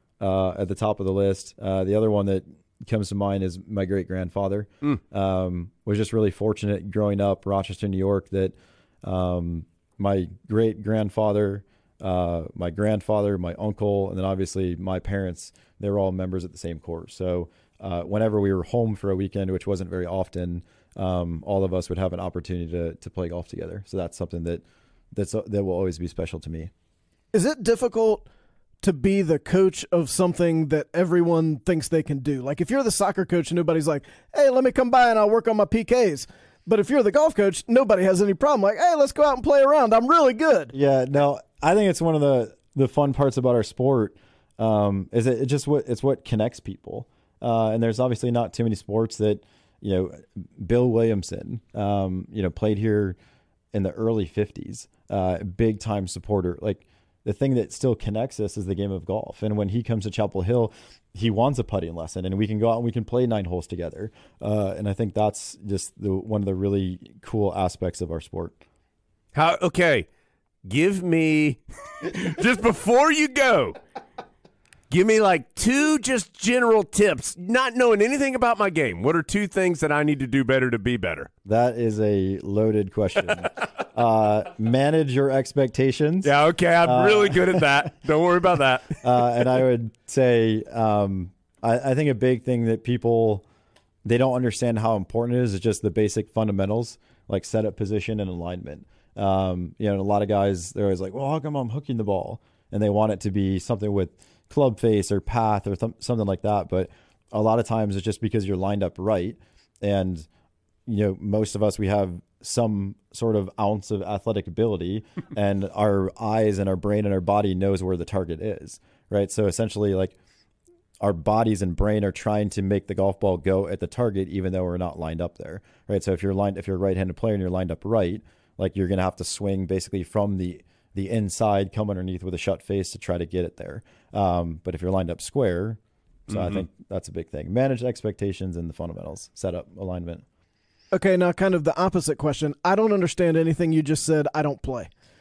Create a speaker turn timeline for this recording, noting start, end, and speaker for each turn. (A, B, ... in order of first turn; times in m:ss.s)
0:00.2-0:26.7 A
0:27.3-0:28.2 B
0:28.8-0:40.7 B
0:40.7-0:53.2 A
0:53.7-1:08.6 A
1:09.3-1:10.1 C
1:10.6-1:13.8 C
1:14.9-1:21.3 C
1:21.4-1:26.3 A
1:26.2-1:29.3 C
1:26.8-1:27.7 A
1:29.0-1:33.4 A
1:34.0-1:50.3 A
1:50.8-2:00.1 A
2:01.0-2:20.2 A
2:20.9-2:24.9 B